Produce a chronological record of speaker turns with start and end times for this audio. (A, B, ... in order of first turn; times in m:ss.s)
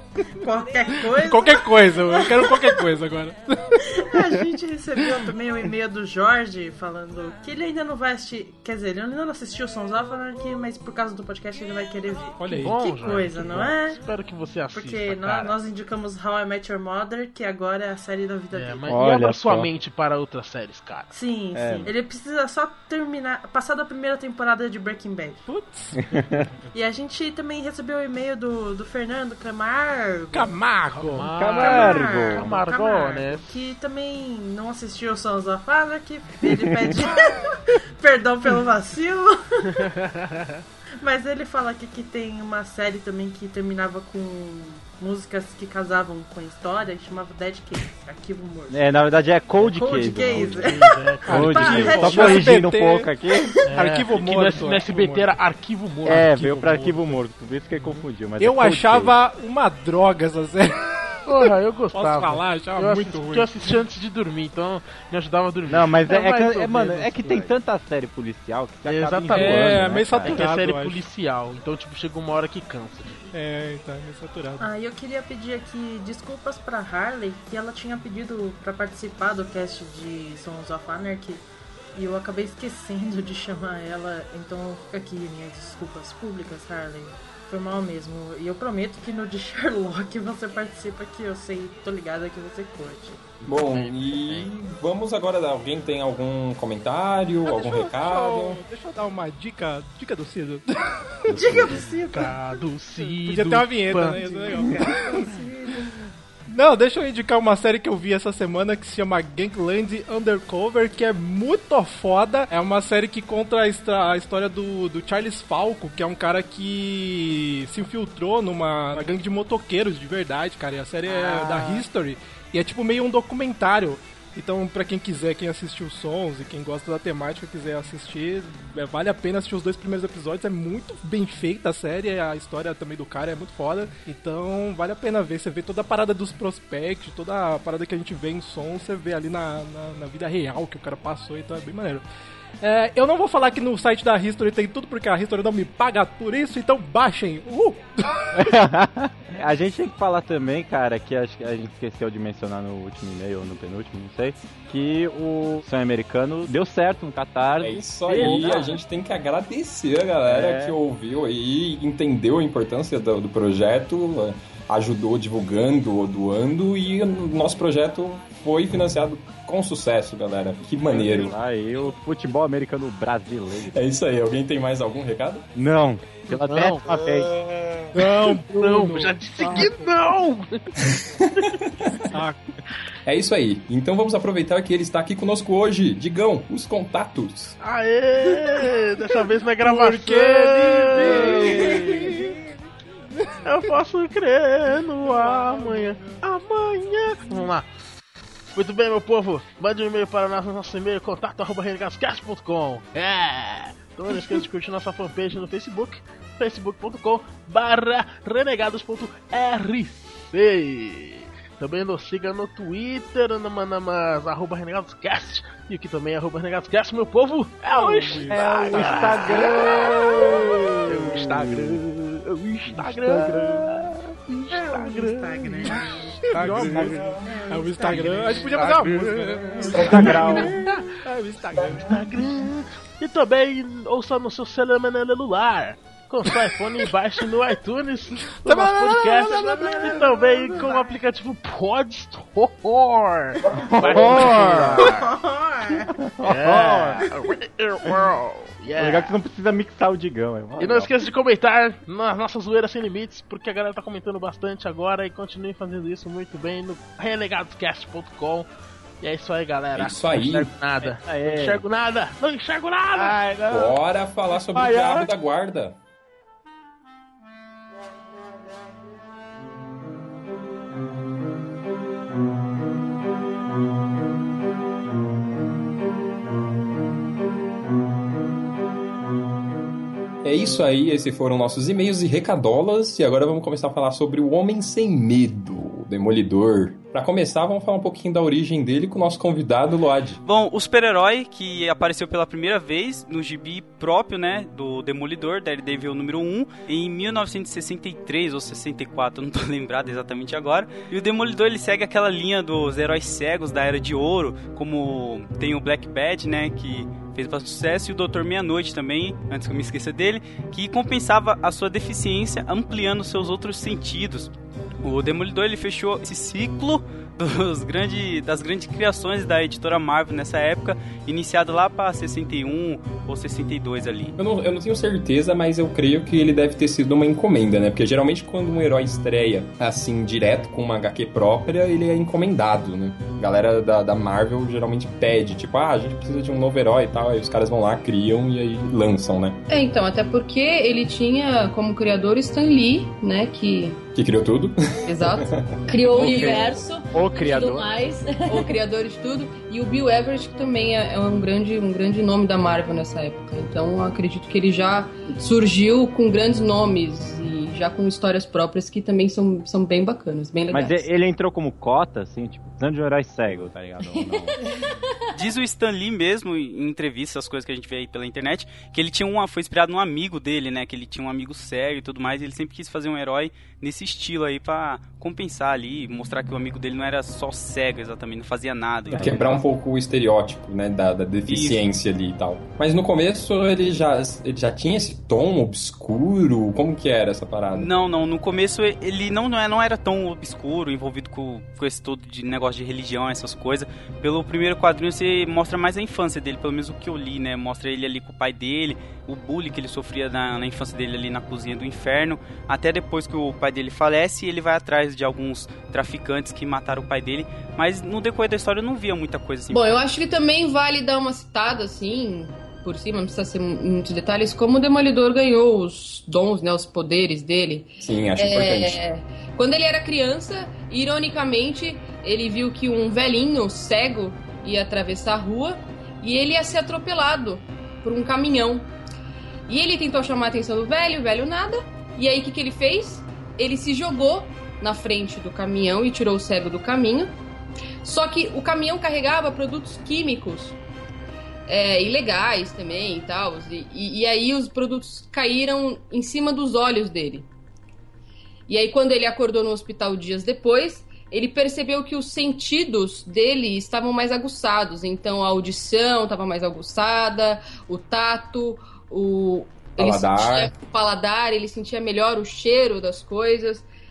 0:00.4-0:02.8 A
0:01.1-0:03.7 B
0:03.8-0:14.0 A
0:12.4-0:12.7 B
0:12.5-0:15.6 C
0:14.7-0:19.0 A
0:18.5-0:21.1 C
0:18.8-0:19.7 D
0:21.1-0:25.4 A
0:21.5-0:21.9 D
0:25.5-0:26.0 B
0:26.1-0:26.5 D
0:26.7-0:30.6 A
0:30.3-0:31.3 B
0:30.9-0:33.5 C
0:31.3-0:32.6 D
0:31.4-0:39.7 A
0:39.8-0:40.6 C
0:41.0-0:49.0 A
0:48.7-0:53.5 D
0:49.6-0:52.6 A
0:50.6-0:52.3 C
0:51.3-0:53.1 B
0:53.7-0:57.2 C
0:53.7-0:55.3 B
0:56.0-0:59.1 D
0:56.1-0:56.7 B
0:57.7-0:58.0 C
0:58.4-1:03.6 B
1:01.2-1:07.5 C
1:05.7-1:10.5 D
1:08.8-1:13.2 C
1:09.3-1:11.0 B
1:13.3-1:14.6 B
1:14.6-1:33.4 A
1:33.4-1:38.6 E
1:37.5-1:41.1 B
1:41.3-1:42.6 A
1:42.1-1:44.6 C
1:43.2-1:45.3 B
1:44.2-1:46.0 A
1:46.5-2:22.0 B
2:01.1-2:01.8 C
2:22.6-2:28.1 B
2:28.3-2:38.5 D
2:37.6-2:51.3 E
2:38.1-2:38.7 C
2:40.2-2:40.8 D
2:50.9-2:53.7 D
2:53.7-2:55.4 E
2:55.5-2:57.4 D
2:56.3-3:00.7 C
2:57.9-2:59.8 B
3:01.0-3:01.5 E
3:02.1-3:02.4 D
3:03.0-3:07.6 E
3:07.6-3:12.0 C
3:09.6-3:12.5 B
3:11.0-3:12.2 D
3:13.1-3:13.6 B
3:13.4-3:17.6 C
3:15.3-3:15.8 B
3:18.5-3:44.0 C
3:37.7-3:39.1 B
3:38.2-3:41.8 D
3:42.7-3:43.6 D
3:44.3-3:48.6 A
3:44.5-3:47.2 C
3:46.3-3:52.1 B
3:47.8-3:50.6 C
3:49.7-3:50.5 D
3:51.6-4:05.1 C
3:58.4-4:00.0 B
3:59.4-4:00.9 A
4:03.7-4:04.9 D
4:04.8-4:05.9 A
4:05.9-4:07.0 D
4:06.2-4:09.1 C
4:08.8-4:10.9 D
4:10.6-4:18.5 C
4:19.0-4:23.2 C
4:19.7-4:20.5 E
4:20.8-4:21.6 D
4:22.9-4:23.8 D
4:23.5-4:25.8 E
4:24.3-4:25.1 D
4:40.2-4:50.2 E
4:50.2-5:14.3 F
5:14.8-5:24.2 F
5:24.2-5:39.4 E
5:39.5-5:43.8 G
5:43.9-5:45.5 E
5:44.9-5:45.3 G
5:45.7-5:48.5 H
5:45.9-5:47.7 D
5:48.3-6:00.9 G
6:00.5-6:04.4 D
6:05.1-6:19.2 F
6:18.9-6:19.4 D
6:18.9-6:27.7 E
6:21.3-6:21.6 F
6:27.5-6:49.8 F
6:49.5-7:08.7 G
6:57.8-6:58.8 E
7:09.5-7:17.1 G
7:17.8-7:20.6 G
7:21.5-7:27.3 G
7:28.5-7:43.7 G
7:39.8-7:40.6 E